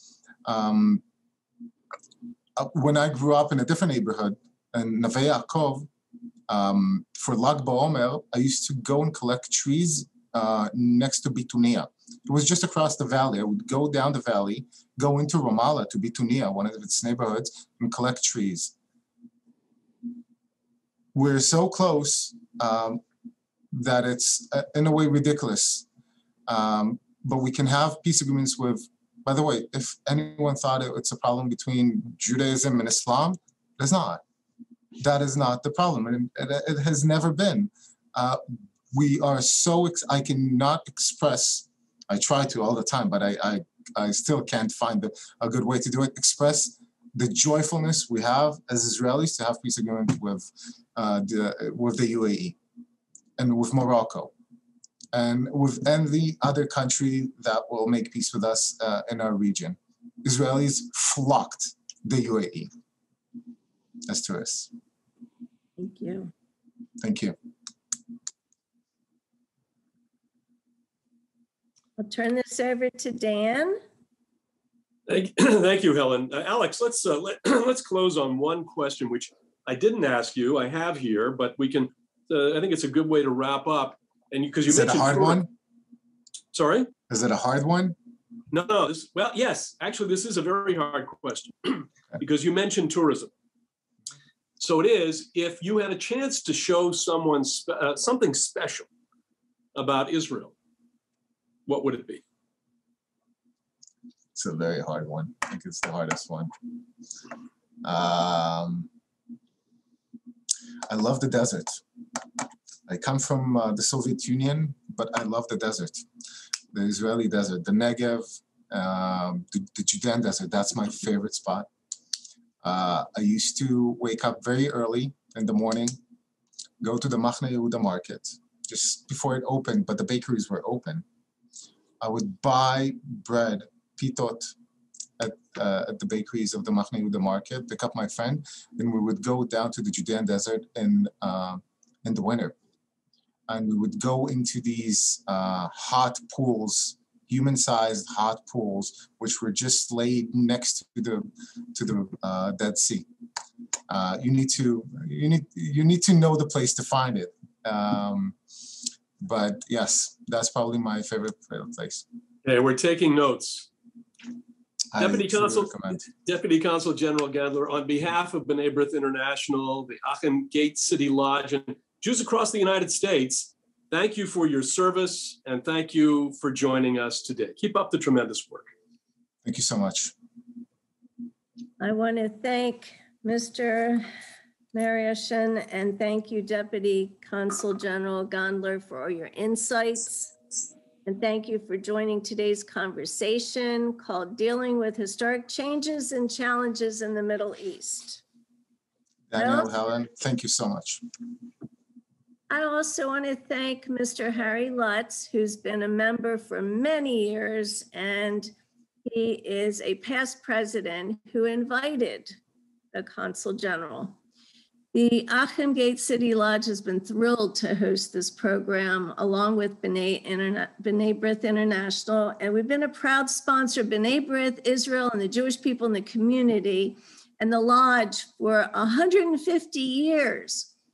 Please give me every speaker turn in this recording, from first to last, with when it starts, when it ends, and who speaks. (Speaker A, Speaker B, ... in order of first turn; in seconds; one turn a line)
Speaker A: 0.5-1.0
Speaker A: 2.5-5.9
Speaker A: 6.5-18.7
Speaker A: 21.1-23.0
Speaker A: 23.7-25.9
Speaker A: 26.5-34.2
Speaker A: 35.0-52.6
Speaker A: 53.4-54.3
Speaker A: 55.1-62.7
Speaker A: 64.0-64.7
Speaker B: 65.8-66.3
Speaker A: 67.0-67.3
Speaker B: 72.0-73.8
Speaker C: 75.1-85.5
Speaker A: 84.7-85.5
Speaker C: 86.5-86.9
Speaker A: 87.1-88.0
Speaker C: 88.5-93.3
Speaker C: 94.6-98.9
Speaker C: 99.7-100.5
Speaker C: 101.7-102.2
Speaker A: 104.4-106.5
Speaker A: 107.8-108.9
Speaker A: 110.9-111.8
Speaker A: 112.9-116.0
Speaker A: 116.7-121.7
Speaker A: 122.6-126.0
Speaker A: 126.8-131.1
Speaker A: 132.0-134.5
Speaker A: 135.2-142.6
Speaker A: 143.5-153.1
Speaker A: 153.9-158.4
Speaker A: 159.2-162.0
Speaker C: 162.4-163.7
Speaker A: 164.9-166.0
Speaker C: 165.0-178.7
Speaker A: 179.4-180.1
Speaker B: 181.8-184.1
Speaker B: 184.7-190.3
Speaker B: 191.1-198.2
Speaker A: 199.3-201.0
Speaker B: 199.3-199.7
Speaker B: 202.5-208.5
Speaker B: 209.1-212.4
Speaker B: 212.9-214.2
Speaker B: 214.9-230.7